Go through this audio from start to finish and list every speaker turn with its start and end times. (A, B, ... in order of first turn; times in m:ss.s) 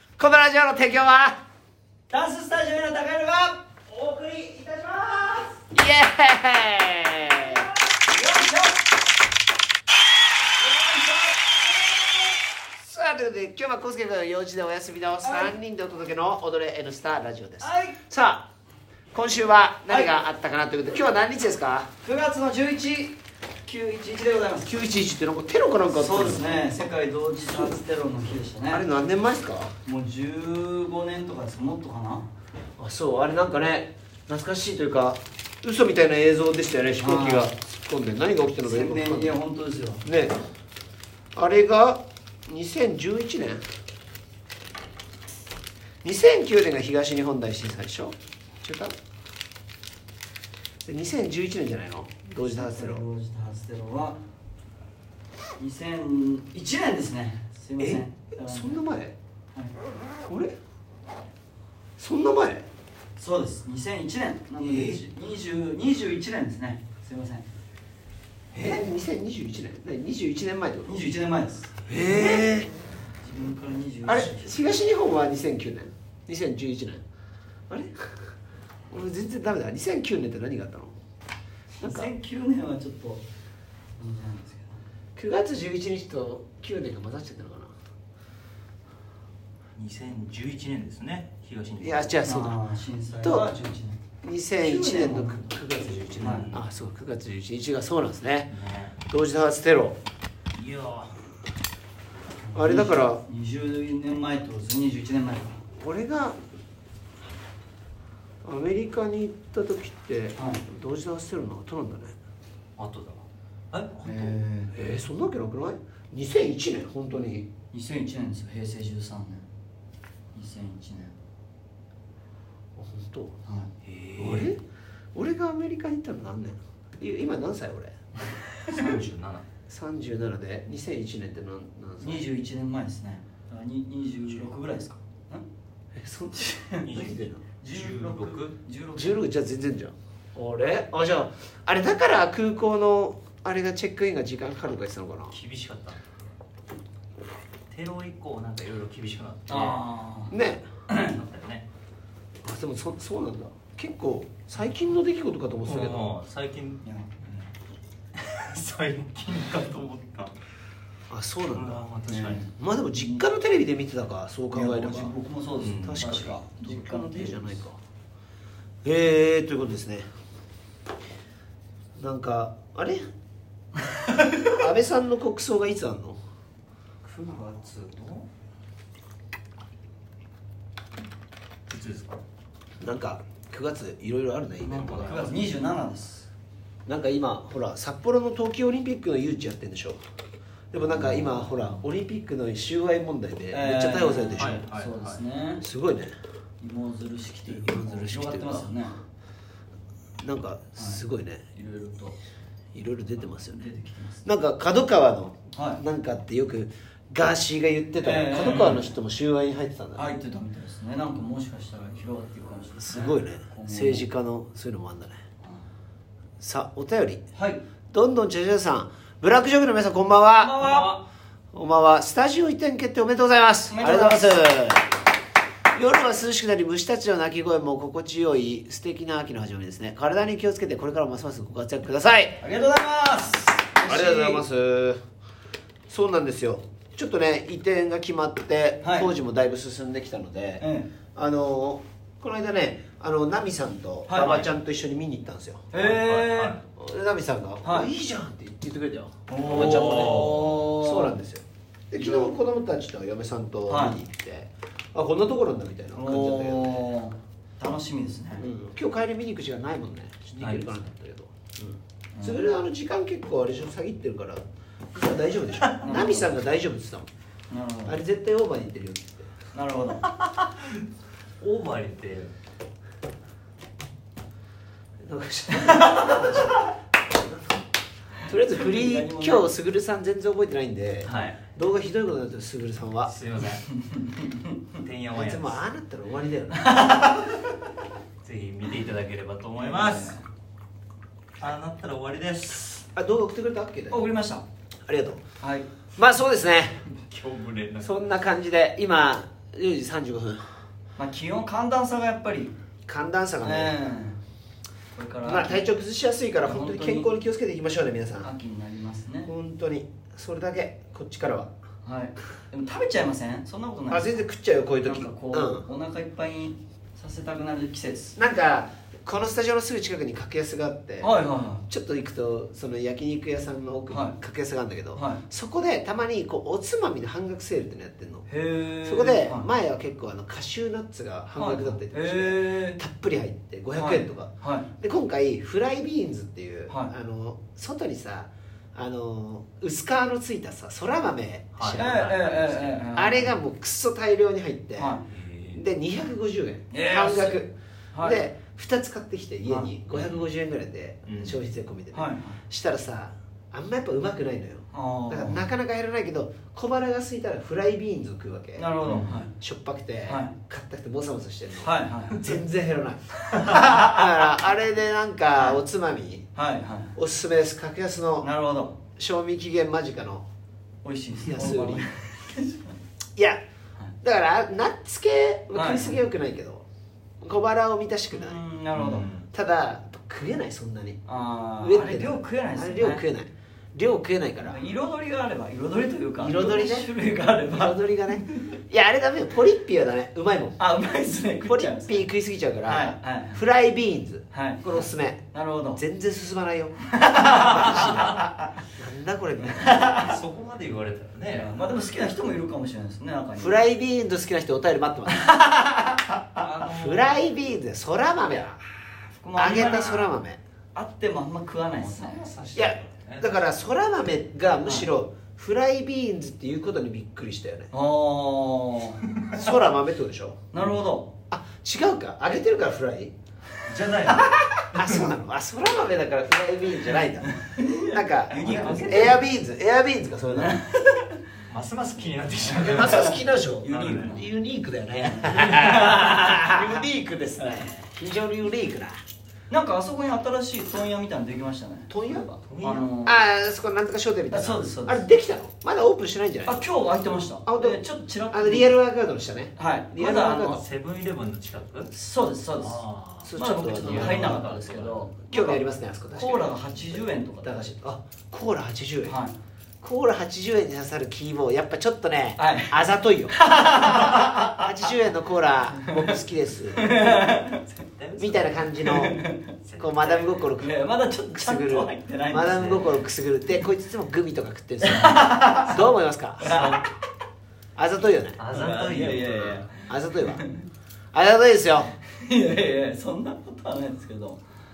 0:00.2-0:01.4 A
0:02.1-0:05.7 B
0:05.7-0:07.7 A
0:07.2-0:08.9 B
0:10.6-0:12.4 B
0:12.7-0:18.5 A
0:15.2-0:15.5 B
0:17.6-0:18.0 B
0:19.1-0:21.9 A
0:19.9-0:20.2 B
0:22.0-0:24.8 B
0:24.6-0:26.6 A
0:25.8-0:28.8 B
0:28.7-0:29.7 A
0:29.8-0:32.3 B
0:32.8-0:39.4 A
0:37.0-0:37.5 B
0:38.6-0:40.0 B
0:40.0-0:40.4 A
0:41.4-0:43.6 A
0:46.0-0:48.9 A
0:50.8-0:53.0 A
0:52.4-0:54.2 B
0:55.6-0:58.8 B
0:57.8-0:59.2 A
1:00.3-1:00.6 A
1:02.0-1:02.7 A
1:03.2-1:07.5 B
1:04.6-1:05.0 A
1:08.5-1:11.0 A
1:10.8-1:12.5 B
1:11.9-1:12.7 A
1:13.2-1:14.6 B
1:14.0-1:17.0 A
1:17.7-1:18.2 A
1:18.9-1:20.9 A
1:21.8-1:23.2 B
1:21.8-1:22.1 A
1:24.0-1:24.8 B
1:25.2-1:27.7 A
1:29.8-1:32.2 C
1:31.8-1:32.6 A
1:32.2-1:34.0 B
1:33.2-1:33.5 A
1:34.2-1:38.5 A
1:34.6-1:35.6 B
1:36.2-1:36.6 B
1:36.2-1:36.6 C
1:38.5-1:39.0 C
1:39.1-1:40.0 A
1:40.5-1:41.2 C
1:42.4-1:45.6 B
1:42.6-1:43.2 A
1:45.8-1:46.4 A
1:48.4-1:52.2 A
1:50.4-1:50.6 B
1:52.8-1:54.3 C
1:54.0-1:54.8 B
1:54.7-1:57.5 A
1:57.7-1:59.4 B
2:00.3-2:01.1 B
2:02.8-2:03.4 A
2:03.5-2:03.7 B
2:03.8-2:04.5 C
2:04.2-2:04.6 A
2:05.2-2:07.9 A
2:08.7-2:09.4 C
2:08.7-2:09.1 B
2:09.7-2:12.3 A
2:12.0-2:15.5 B
2:16.0-2:17.4 A
2:16.3-2:19.2 B
2:16.8-2:18.6 C
2:19.0-2:25.4 A
2:25.3-2:26.2 C
2:27.7-2:29.8 C
2:29.5-2:30.3 B
2:30.3-2:30.6 A
2:30.9-2:31.2 B
2:31.0-2:31.7 C
2:32.4-2:36.1 A
2:35.6-2:37.5 C
2:36.8-2:37.1 B
2:38.2-2:40.4 C
2:41.1-2:41.8 A
2:41.5-2:42.5 C
2:42.1-2:42.5 B
2:42.5-2:45.2 A
2:44.5-2:47.6 B
2:45.6-2:46.0 C
2:45.8-2:47.8 A
2:48.8-2:50.1 A
2:52.0-2:53.0 A
2:54.4-2:56.2 A
2:57.0-2:58.3 C
3:01.7-3:02.2 C
3:02.8-3:05.3 A
3:04.6-3:06.3 B
3:04.8-3:05.5 C
3:06.9-3:10.0 A
3:10.7-3:14.6 A
3:10.9-3:11.8 B
3:13.5-3:15.6 B
3:14.4-3:15.2 C
3:15.6-3:16.1 A
3:16.6-3:19.0 B
3:17.5-3:18.7 A
3:20.2-3:21.4 A
3:21.6-3:22.2 B
3:22.7-3:23.7 A
3:23.3-3:24.2 B
3:24.2-3:30.1 A
3:25.5-3:25.8 B
3:28.0-3:29.0 B
3:28.5-3:28.8 C
3:30.0-3:34.1 B
3:32.8-3:35.2 A
3:36.4-3:37.2 A
3:37.3-3:37.6 B
3:37.9-3:40.7 A
3:40.4-3:41.0 B
3:40.6-3:40.9 C
3:41.5-3:44.9 A
3:43.7-3:44.2 B
3:45.7-3:52.4 A
3:52.4-3:54.4 B
3:53.8-3:55.0 A
3:55.9-4:05.7 A
3:58.8-3:59.1 B
4:00.6-4:00.9 B
4:04.1-4:04.5 B
4:05.7-4:06.6 B
4:05.7-4:06.6 C
4:06.8-4:16.8 A
4:07.6-4:07.9 B
4:09.3-4:11.2 B
4:09.5-4:10.4 C
4:12.0-4:12.4 B
4:13.7-4:14.0 B
4:16.0-4:18.4 B
4:18.4-4:24.4 A
4:20.4-4:20.8 C
4:22.2-4:22.4 B
4:25.0-4:27.1 A
4:25.8-4:26.3 B
4:27.5-4:28.0 B
4:27.8-4:29.3 A
4:29.5-4:30.1 B
4:30.1-4:30.8 C
4:31.4-4:32.4 C
4:35.1-4:37.4 A
4:38.2-4:43.2 A
4:38.5-4:39.5 B
4:41.1-4:41.4 C
4:43.1-4:43.7 C
4:43.8-4:44.6 B
4:44.7-4:45.6 C
4:45.1-4:46.8 A
4:46.6-4:47.4 B
4:48.2-4:50.2 C
4:49.6-4:50.3 B
4:51.4-4:52.9 C
4:52.9-4:54.1 A
4:53.9-4:54.4 B
4:54.9-4:55.2 A
4:55.4-4:55.7 B
4:56.0-4:56.8 A
4:56.9-4:57.9 C
4:57.8-5:00.6 A
5:01.0-5:02.6 B
5:02.9-5:03.8 A
5:03.4-5:04.2 B
5:04.9-5:05.6 B
5:05.2-5:08.3 A
5:06.4-5:07.1 B
5:08.2-5:09.3 B
5:09.2-5:11.5 A
5:11.8-5:14.2 B
5:13.9-5:15.7 A
5:14.8-5:18.2 B
5:18.2-5:21.1 A
5:21.0-5:21.6 B
5:21.7-5:28.3 A
5:23.9-5:24.2 B
5:24.9-5:25.2 B
5:28.3-5:29.5 B
5:28.8-5:42.2 A
5:31.4-5:32.8 B
5:33.8-5:34.7 B
5:41.6-5:42.8 C
5:41.8-5:43.3 B
5:42.9-5:45.0 A
5:44.8-5:45.1 B
5:45.1-5:45.6 C
5:45.5-5:58.7 A
5:46.7-5:47.4 B
5:47.9-5:48.2 B
5:49.5-5:49.7 B
5:49.9-5:50.2 C
5:51.0-5:51.4 C
5:51.9-5:52.4 B
5:54.7-5:55.4 B
5:58.6-5:59.3 B
5:58.8-5:59.2 C
5:59.3-6:06.3 A
6:00.1-6:00.4 B
6:01.6-6:02.4 B
6:03.3-6:03.8 C
6:06.4-6:07.0 B
6:07.0-6:08.3 A
6:08.2-6:08.8 B
6:09.0-6:10.3 A
6:10.8-6:12.8 B
6:11.2-6:11.9 A
6:14.0-6:16.7 A
6:15.5-6:16.0 B
6:17.2-6:18.4 A
6:18.1-6:19.1 B
6:18.8-6:19.3 C
6:19.3-6:21.0 A
6:21.0-6:23.0 B
6:21.6-6:24.6 A
6:24.4-6:28.6 B
6:26.2-6:26.9 A
6:27.5-6:30.6 A
6:30.6-6:32.1 B
6:31.4-6:39.9 A
6:32.6-6:33.4 B
6:34.3-6:35.8 B
6:36.9-6:38.3 B
6:39.6-6:40.0 B
6:39.9-6:41.6 C
6:41.3-6:43.6 B
6:43.4-6:45.4 A
6:46.4-6:46.7 B
6:46.4-6:47.1 C
6:46.6-6:48.6 A
6:49.2-6:50.0 B
6:49.3-6:50.4 A
6:49.4-6:50.1 C
6:50.8-6:52.2 B
6:51.7-6:53.3 C
6:52.5-6:57.7 A
6:54.6-6:54.9 B
6:57.7-6:59.0 B
6:59.1-6:59.5 C
6:59.3-7:00.4 A
7:00.5-7:01.1 B
7:01.3-7:03.1 A
7:03.6-7:05.1 C
7:04.1-7:10.6 A
7:07.4-7:09.2 B
7:08.4-7:09.2 C
7:10.3-7:11.2 B
7:11.5-7:13.1 C
7:12.4-7:14.2 B
7:12.6-7:19.0 A
7:13.7-7:14.2 C
7:15.0-7:16.6 B
7:15.6-7:16.2 C
7:19.5-7:23.2 B
7:21.9-7:22.3 A
7:22.5-7:22.9 C
7:23.0-7:26.7 A
7:24.3-7:25.0 B
7:26.4-7:28.7 B
7:27.4-7:30.6 A
7:29.6-7:30.6 B
7:30.4-7:31.9 C
7:31.9-7:32.8 B
7:32.6-7:34.9 C
7:33.2-7:39.2 A
7:33.4-7:35.6 B
7:36.1-7:37.7 B
7:39.1-7:39.4 B
7:39.8-7:43.3 A
7:42.4-7:42.8 B
7:43.4-7:44.7 B
7:44.5-7:47.0 A
7:46.7-7:47.6 B
7:47.2-7:48.8 C
7:48.2-7:49.2 A
7:48.8-7:49.5 B
7:49.6-7:50.3 C
7:49.8-7:50.8 A
7:50.6-7:52.9 B
7:51.3-7:56.5 A
7:54.8-7:55.9 B
7:56.4-7:56.9 B
7:56.4-7:56.9 C
7:57.8-7:58.4 A
7:58.4-7:59.6 C
7:58.5-8:00.7 B
7:59.7-8:00.4 A
8:01.1-8:01.9 A
8:02.0-8:04.4 B